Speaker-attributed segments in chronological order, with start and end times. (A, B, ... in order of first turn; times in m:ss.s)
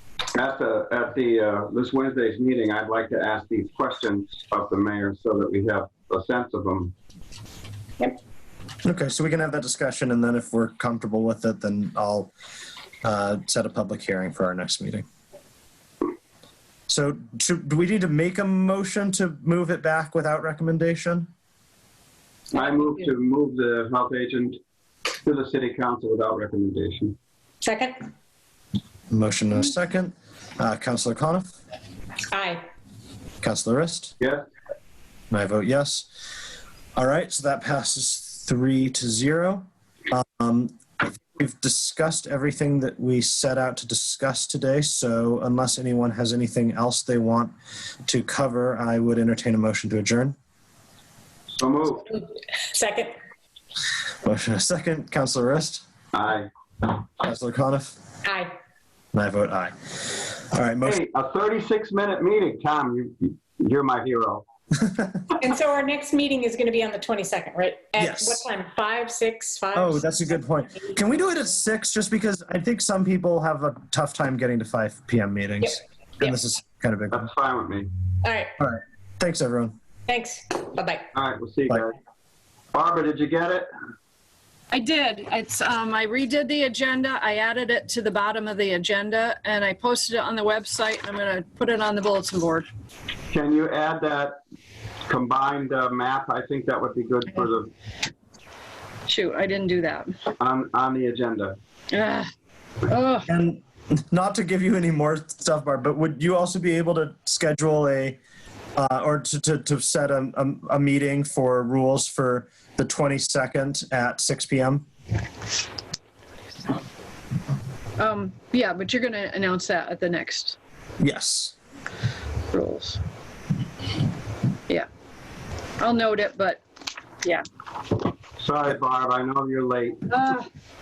0:00.3-0:06.9 A
0:08.8-0:12.3 B
0:13.0-0:15.0 B
0:16.9-0:21.3 B
0:22.5-0:24.6 A
0:25.2-0:27.2 A
0:27.6-0:28.0 C
0:29.1-0:31.5 B
0:32.3-0:32.6 C
0:33.4-0:34.1 B
0:34.2-0:34.4 A
0:35.3-0:36.3 B
0:37.0-0:47.5 B
0:48.0-0:50.3 B
0:51.5-0:52.2 A
0:52.6-0:53.1 C
0:54.2-0:55.8 B
0:56.1-0:56.5 A
0:57.2-0:58.0 B
0:58.2-0:58.5 C
0:59.1-1:01.0 B
1:00.8-1:04.4 A
1:05.3-1:10.0 C
1:08.0-1:08.4 B
1:09.7-1:17.3 B
1:17.1-1:17.9 A
1:18.2-1:18.5 C
1:18.6-1:19.7 B
1:20.1-1:21.1 C
1:21.1-1:21.9 A
1:22.7-1:23.7 A
1:24.7-1:32.7 D
1:33.3-1:34.4 A
1:35.1-1:37.7 A
1:39.1-1:40.2 D
1:40.4-1:41.6 A
1:41.9-1:42.3 D
1:42.8-1:43.3 D
1:43.3-1:48.2 B
1:48.8-1:54.8 B
1:58.0-2:00.6 D
2:01.0-2:01.5 B
2:02.5-2:03.0 D
2:05.8-2:06.6 D
2:08.4-2:10.2 A
2:10.1-2:10.4 D